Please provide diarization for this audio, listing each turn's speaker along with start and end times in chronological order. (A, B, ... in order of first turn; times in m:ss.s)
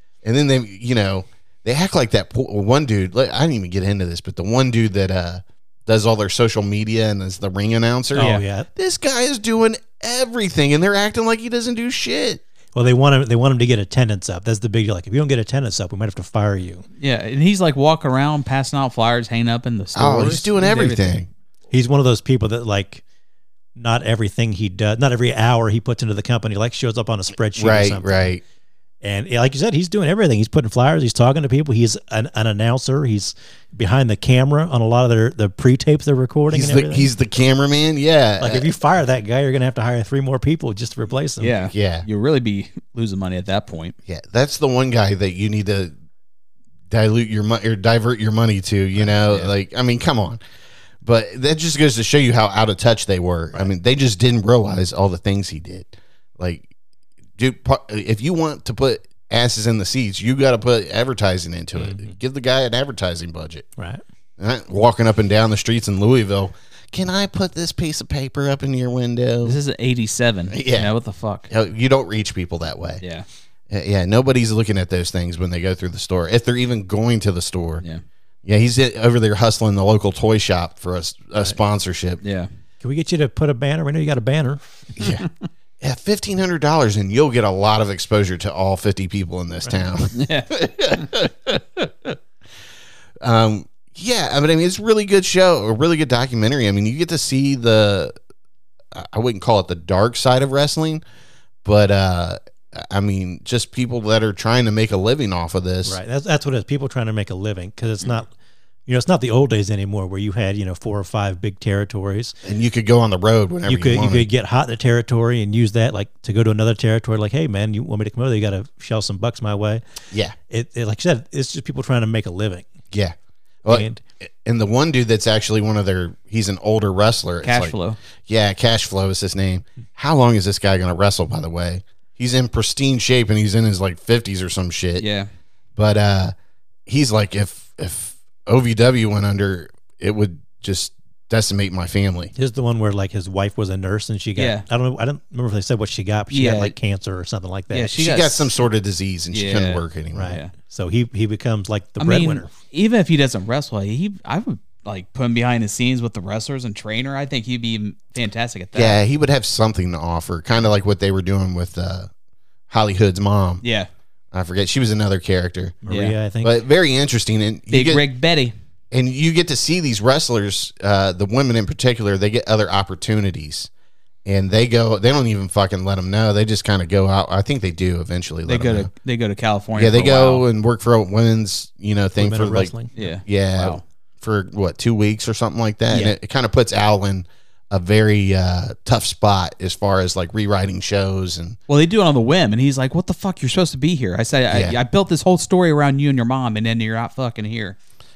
0:00.2-0:12.4 A
0:08.2-0:08.7 B
0:08.2-0:08.4 C
0:12.8-0:16.8 B
0:17.0-0:21.2 C
0:20.0-0:21.3 A
0:21.7-0:23.0 B
0:23.8-0:28.2 B
0:27.6-0:28.4 A
0:29.0-0:37.1 B
0:36.5-0:38.7 A
0:38.4-0:41.6 B
0:41.4-0:44.0 C
0:41.7-0:42.1 A
0:44.1-0:45.9 A
0:46.9-0:50.4 A
0:49.3-0:49.5 C
0:51.0-0:56.7 A
0:57.4-1:03.7 A
1:01.8-1:02.1 B
1:03.8-1:04.0 B
1:04.4-1:09.6 A
1:09.4-1:11.5 C
1:10.5-1:10.9 A
1:11.5-1:13.0 A
1:13.0-1:13.3 C
1:13.7-1:17.8 A
1:18.4-1:22.2 A
1:22.2-1:22.5 C
1:22.8-1:24.9 B
1:25.0-1:25.3 A
1:25.8-1:32.2 A
1:30.1-1:31.0 C
1:33.2-1:38.2 A
1:38.9-1:41.0 A
1:41.6-1:46.0 A
1:45.9-1:48.3 B
1:48.9-1:52.4 B
1:52.4-1:54.3 A
1:53.7-1:59.8 B
2:00.1-2:00.4 A
2:00.5-2:02.7 B
2:02.9-2:07.8 A
2:03.7-2:04.0 B
2:07.4-2:08.0 C
2:08.3-2:15.0 A
2:15.0-2:15.3 C
2:15.8-2:16.3 A
2:16.9-2:22.3 A
2:22.4-2:27.9 B
2:24.4-2:24.6 C
2:26.3-2:26.7 C
2:27.7-2:28.5 C
2:27.9-2:30.4 A
2:29.3-2:30.5 C
2:30.2-2:32.5 B
2:32.0-2:39.0 C
2:38.7-2:42.1 A
2:42.7-2:43.6 A
2:43.6-2:43.9 C
2:44.3-2:45.8 A
2:45.8-2:46.5 B
2:45.9-2:46.2 C
2:46.4-2:48.0 A
2:47.7-2:48.6 C
2:48.9-2:53.7 A
2:54.2-2:58.9 A
2:58.5-3:00.5 C
2:59.8-3:11.6 A
3:02.2-3:02.9 B
3:03.0-3:03.8 C
3:05.9-3:06.2 C
3:11.7-3:17.8 C
3:14.5-3:14.8 A